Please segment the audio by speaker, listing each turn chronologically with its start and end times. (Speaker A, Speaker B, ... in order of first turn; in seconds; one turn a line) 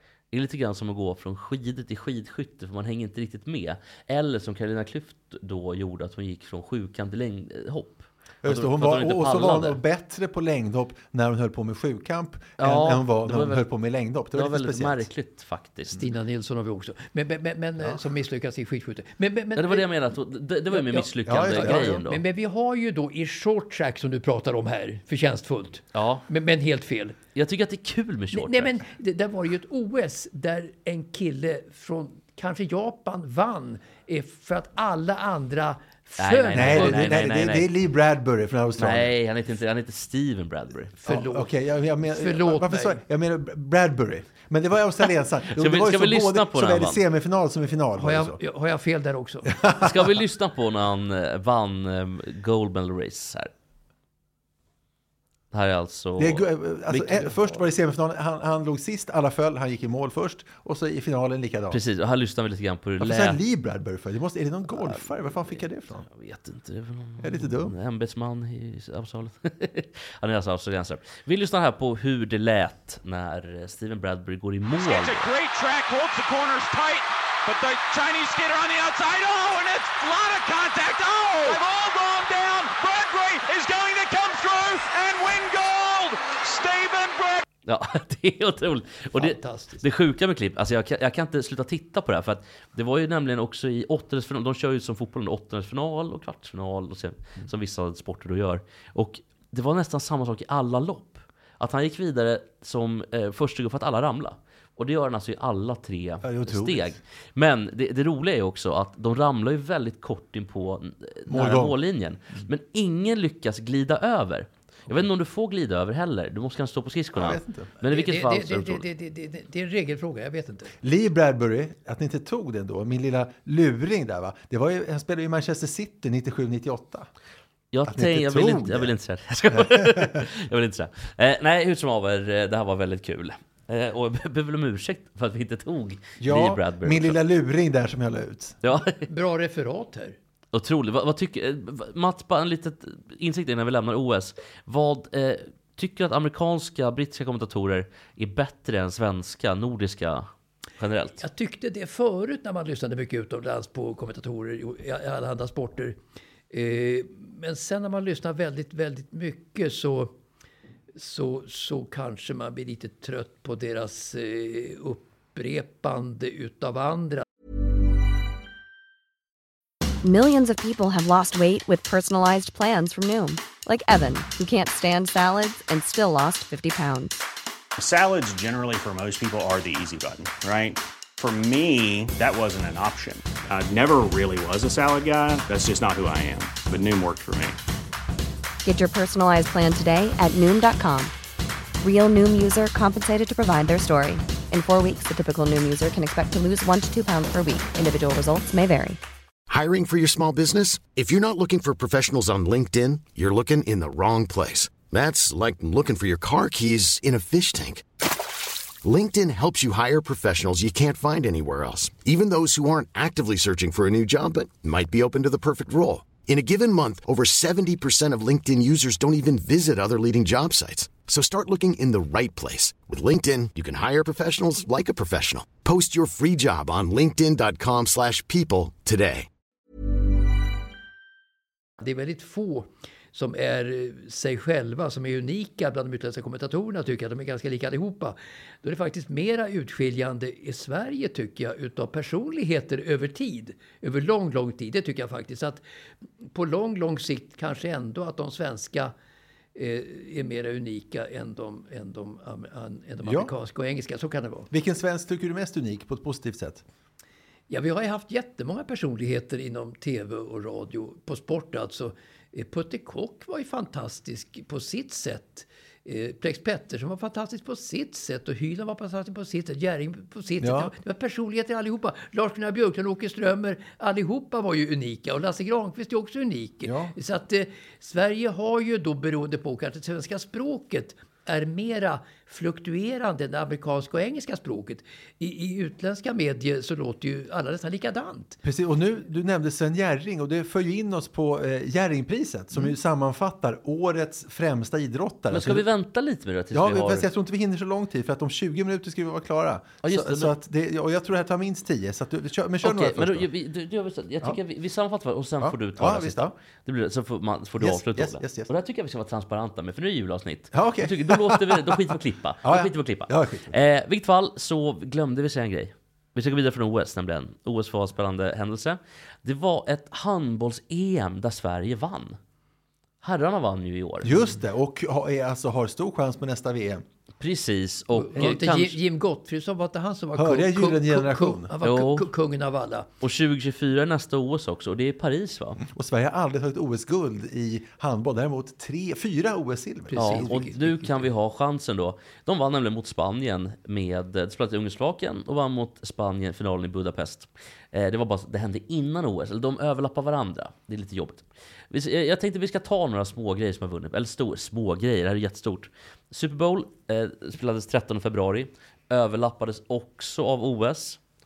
Speaker A: 0.3-9.8
Speaker B: 8.4-15.1
Speaker A: 12.6-13.6
Speaker A: 14.3-16.0
Speaker C: 16.0-19.9
Speaker A: 19.6-22.2
Speaker C: 20.7-27.2
Speaker B: 21.2-22.0
Speaker A: 25.9-26.2
Speaker A: 27.3-28.8
Speaker C: 28.3-37.2
Speaker A: 36.2-37.7
Speaker B: 36.5-39.1
Speaker A: 38.8-40.9
Speaker B: 41.0-48.4
Speaker C: 41.0-41.5
Speaker C: 42.0-43.0
Speaker A: 45.5-47.0
Speaker C: 48.0-49.6
Speaker B: 49.5-49.9
Speaker A: 49.7-53.5
Speaker A: 55.5-57.4
Speaker B: 56.2-61.8
Speaker A: 61.7-63.4
Speaker B: 63.0-66.1
Speaker A: 64.7-75.3
Speaker B: 67.2-67.7
Speaker D: 74.8-87.4
Speaker A: 87.7-118.8
Speaker C: 89.1-89.8
Speaker B: 106.2-107.0
Speaker B: 111.3-111.8
Speaker B: 117.1-117.7
Speaker C: 117.8-120.7
Speaker B: 120.8-127.1
Speaker A: 127.7-137.2
Speaker B: 127.8-128.9
Speaker B: 129.5-130.2
Speaker B: 136.2-138.6
Speaker A: 138.6-139.1
Speaker C: 139.0-140.2
Speaker A: 140.5-151.2
Speaker C: 151.2-156.0
Speaker C: 156.5-160.1
Speaker C: 160.9-167.2
Speaker E: 170.0-177.2
Speaker F: 177.8-187.6
Speaker E: 188.6-191.1
Speaker E: 191.8-199.0
Speaker G: 199.5-207.8
Speaker G: 208.8-229.3
Speaker C: 231.8-245.6
Speaker C: 246.2-248.9
Speaker C: 249.5-254.5
Speaker B: 253.0-253.3
Speaker B: 254.5-256.6
Speaker C: 257.5-288.4
Speaker B: 270.4-270.7
Speaker B: 276.6-276.9
Speaker B: 288.4-295.6
Speaker A: 295.3-297.1
Speaker B: 296.5-303.3
Speaker A: 299.8-300.3
Speaker A: 302.6-322.2
Speaker B: 305.4-306.3
Speaker B: 307.6-308.5
Speaker B: 310.5-313.5
Speaker A: 323.0-324.2
Speaker B: 324.0-326.8
Speaker A: 327.2-328.8
Speaker C: 327.9-332.9
Speaker B: 330.1-331.5
Speaker A: 331.6-332.1
Speaker A: 333.0-335.6
Speaker B: 335.6-340.7
Speaker C: 339.9-340.6
Speaker A: 339.9-361.0